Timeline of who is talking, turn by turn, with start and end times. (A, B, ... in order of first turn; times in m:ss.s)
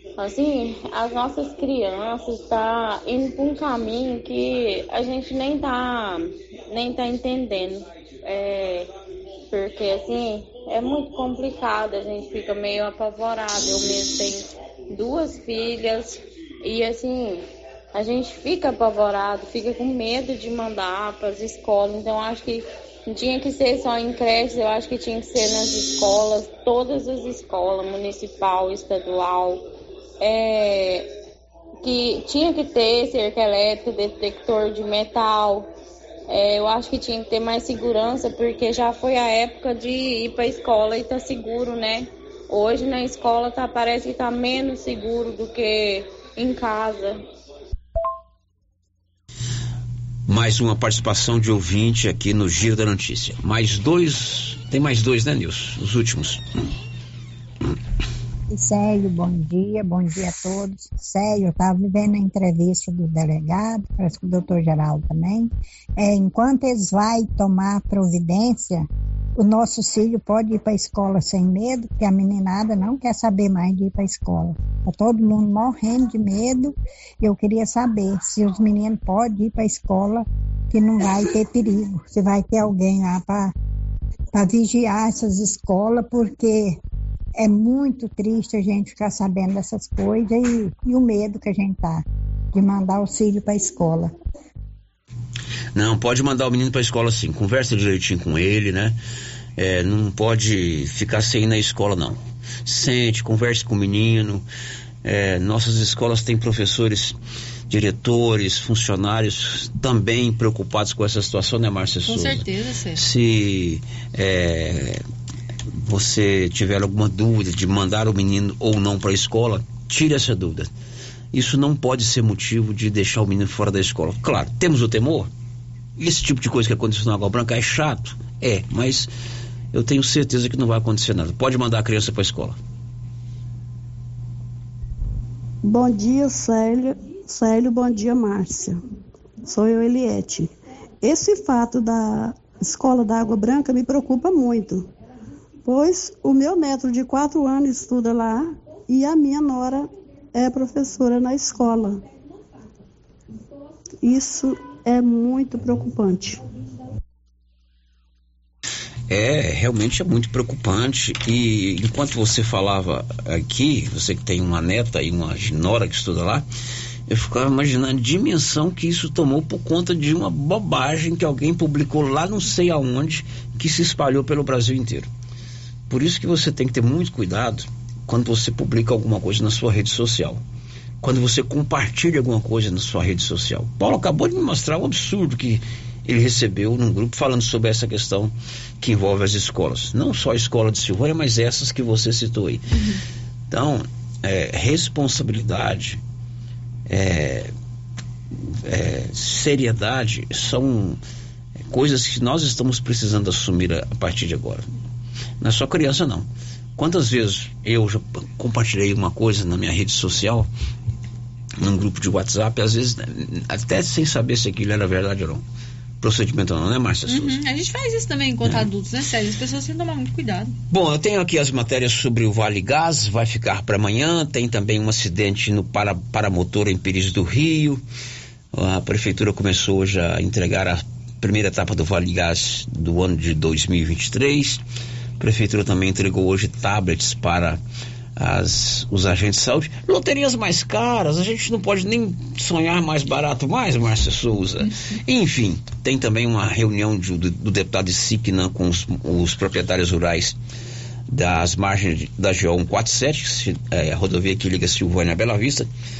0:00.2-0:08.9 A
0:09.5-0:29.7 A
0:30.2-0:31.1 A
0:31.8-0:35.7 A
0:36.3-0:47.2 A
0:50.3-0:56.4 B
0:58.5-1:08.9 C
1:09.4-1:23.5 C
1:24.3-1:26.8 C
1:27.4-1:34.1 C
1:35.7-1:39.0 B
1:39.6-1:44.4 B
1:45.0-1:47.2 B
1:47.7-1:55.0 B
1:52.0-1:53.0 D
1:55.8-2:00.7 B
2:01.3-2:05.3 B
2:06.0-2:09.1 B
2:09.7-2:12.6 B
2:15.6-2:18.8 E
2:19.4-2:20.5 E
2:21.0-2:24.8 E
2:25.6-2:32.0 E
2:34.0-2:36.4 E
2:39.1-2:46.4 B
2:47.1-2:55.1 B
2:55.9-3:00.4 B
3:01.0-3:12.6 B
3:13.5-3:16.0 B
3:16.9-3:17.5 B
3:18.5-3:21.0 B
3:21.7-3:24.6 B
3:25.4-3:30.5 B
3:31.6-3:35.4 B
3:36.0-3:37.4 B
3:37.1-3:40.5 D
3:40.7-3:47.8 B
3:48.5-3:54.6 B
3:55.2-3:57.6 B
3:58.2-4:10.4 B
4:11.1-4:15.7 B